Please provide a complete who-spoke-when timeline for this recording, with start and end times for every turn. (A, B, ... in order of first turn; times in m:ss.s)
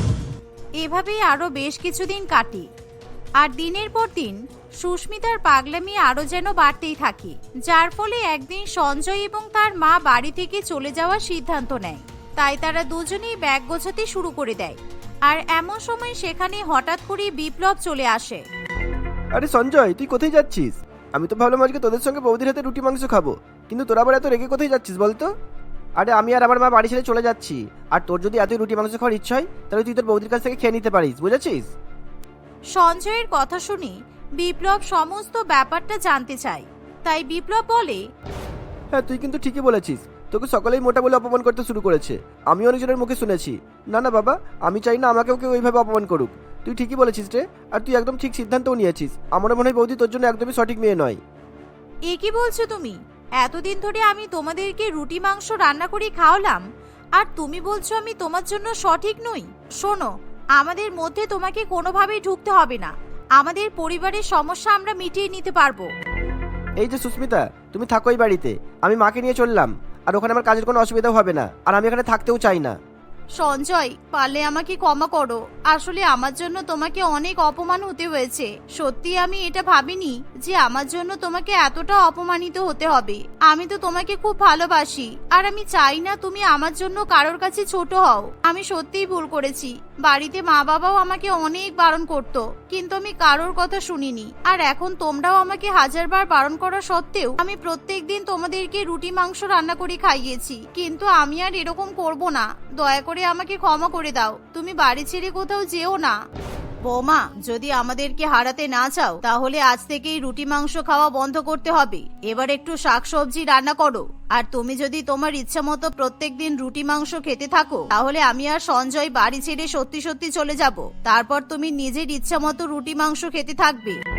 0:00.8-0:02.7 A
0:03.4-0:18.4 A
0:19.3-0:25.3 B
0:26.0-0:31.7 B
0:32.7-0:38.0 A
0:38.9-0:51.2 B
0:52.1-1:05.9 A
1:06.8-1:12.8 B
1:13.4-1:46.2 A
1:46.8-2:04.0 A